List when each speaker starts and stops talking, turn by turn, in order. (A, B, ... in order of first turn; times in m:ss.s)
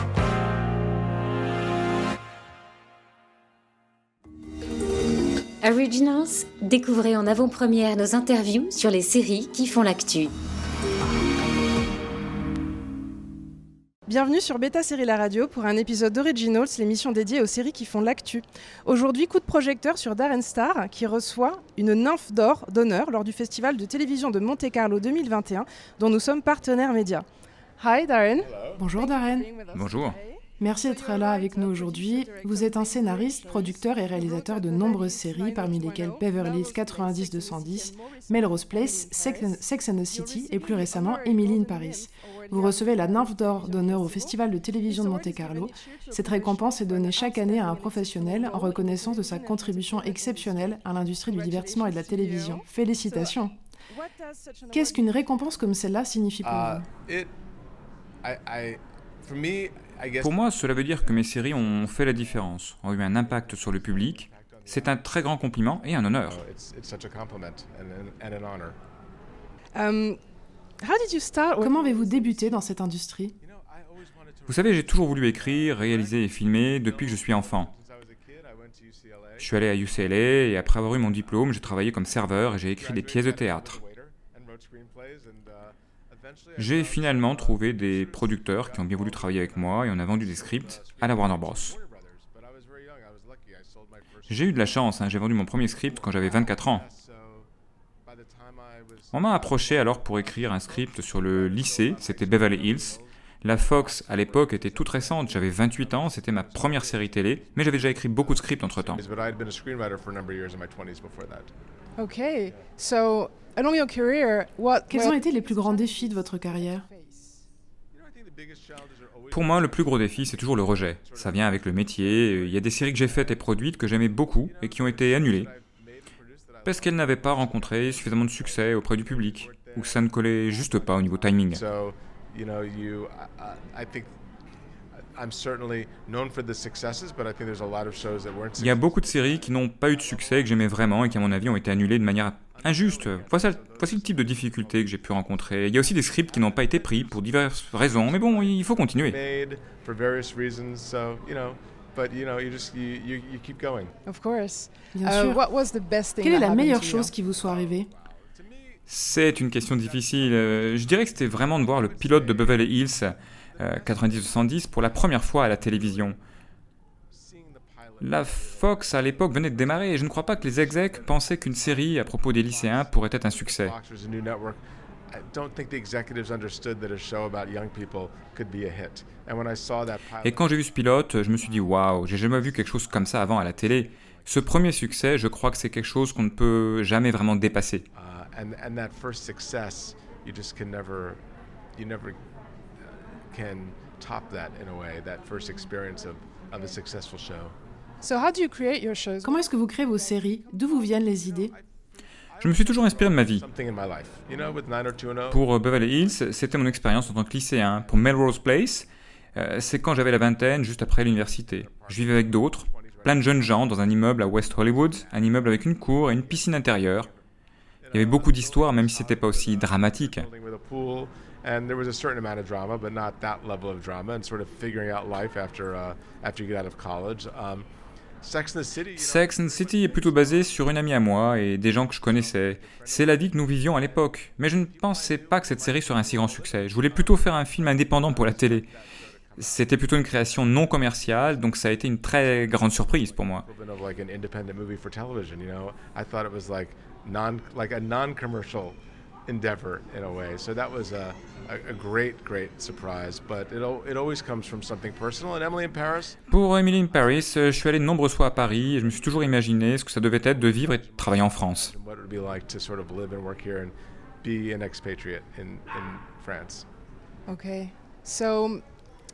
0:05.6-0:10.3 A
0:14.0-0:27.2 B
0:27.8-0:53.4 B
0:28.4-0:28.8 C
0:28.8-0:29.5 D
0:29.7-0:30.2 E
0:30.6-0:53.5 D
0:53.9-0:55.7 B
0:54.7-0:56.9 D
0:56.4-0:57.3 C
0:58.2-1:08.8 C
1:00.2-1:06.4 E
1:09.7-1:10.2 B
1:10.8-1:12.7 B
1:11.6-1:13.4 D
1:13.4-1:37.5 C
1:14.5-1:17.7 E
1:19.4-1:23.8 E
1:26.6-1:31.8 E
1:34.3-1:36.8 E
1:38.0-1:51.5 C
1:39.1-1:49.0 E
1:52.0-1:57.4 B
1:52.5-1:52.7 C
1:54.9-1:56.9 D
1:57.9-2:14.1 C
1:59.3-2:05.5 E
2:06.6-2:11.6 E
2:15.1-2:22.0 C
2:18.6-2:29.2 E
2:22.5-2:33.9 C
2:34.0-2:37.1 B
2:34.9-2:35.4 D
2:36.2-2:37.9 D
2:37.2-2:46.2 C
2:38.9-2:46.2 E
2:47.1-2:54.6 C
2:48.0-2:53.7 E
2:55.1-3:05.3 C
3:00.2-3:07.8 E
3:07.9-3:11.2 C
3:11.7-3:12.2 C
3:13.3-3:17.5 C
3:18.0-3:21.0 B
3:19.2-3:21.5 D
3:22.3-3:28.9 C
3:22.4-3:23.4 E
3:25.3-3:37.1 E
3:31.4-3:37.2 C
3:37.8-3:47.7 C
3:37.9-3:40.2 E
3:48.2-3:51.0 C
3:49.0-3:58.7 E
3:51.9-4:00.1 C
3:59.4-4:03.4 E
4:00.9-4:01.5 C
4:02.1-4:16.2 C
4:16.3-4:21.7 E
4:16.9-4:17.7 C
4:18.3-4:19.5 C
4:20.2-4:26.7 C
4:27.3-4:28.6 B